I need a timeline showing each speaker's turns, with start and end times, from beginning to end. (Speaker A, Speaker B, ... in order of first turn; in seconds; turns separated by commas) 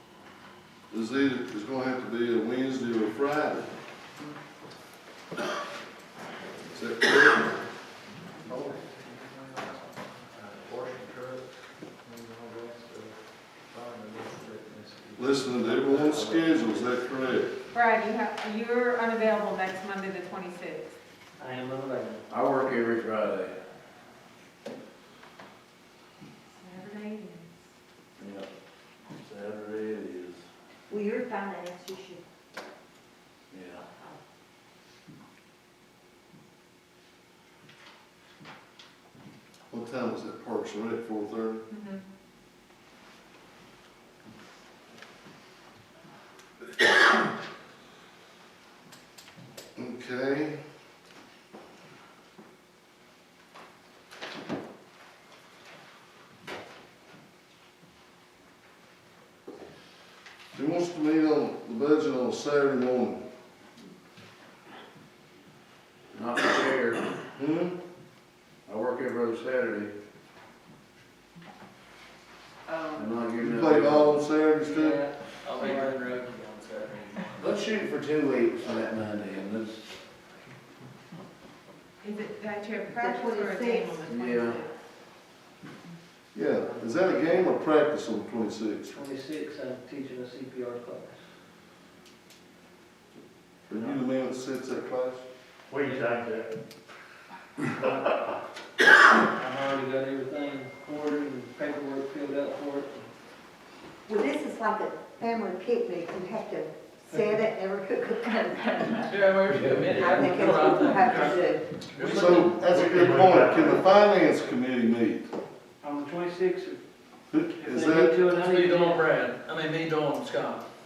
Speaker A: 0.9-3.7, Speaker A: 6.7-7.5, Speaker B: 8.4-11.4, Speaker B: 12.0-13.1, Speaker B: 13.7-16.9, Speaker A: 15.2-17.7, Speaker C: 17.7-20.9, Speaker D: 21.4-22.2, Speaker E: 22.3-23.5, Speaker C: 26.6-27.5, Speaker E: 28.2-28.5, Speaker E: 29.2-30.4, Speaker F: 30.9-32.2, Speaker E: 33.5-33.8, Speaker F: 33.6-34.2, Speaker A: 39.7-41.7, Speaker C: 41.7-42.0, Speaker A: 49.8-50.6, Speaker A: 60.5-63.2, Speaker E: 66.1-67.1, Speaker A: 67.3-67.8, Speaker E: 68.7-69.9, Speaker D: 72.7-72.9, Speaker E: 72.9-74.2, Speaker A: 73.4-75.0, Speaker D: 74.6-76.1, Speaker G: 75.4-77.7, Speaker E: 77.4-79.9, Speaker C: 82.0-84.7, Speaker F: 82.9-84.1, Speaker E: 84.1-84.6, Speaker A: 86.3-89.0, Speaker D: 86.6-87.5, Speaker D: 88.9-91.2, Speaker A: 93.7-95.2, Speaker D: 93.7-94.0, Speaker B: 95.7-96.5, Speaker D: 95.8-96.2, Speaker D: 97.7-98.2, Speaker D: 99.2-103.0, Speaker F: 104.0-109.2, Speaker G: 109.1-112.6, Speaker E: 109.5-110.0, Speaker F: 110.0-111.6, Speaker D: 110.5-112.5, Speaker A: 112.2-115.3, Speaker B: 112.8-113.8, Speaker C: 113.0-113.3, Speaker D: 115.8-116.8, Speaker A: 117.3-118.1, Speaker D: 117.5-119.0, Speaker G: 118.3-120.7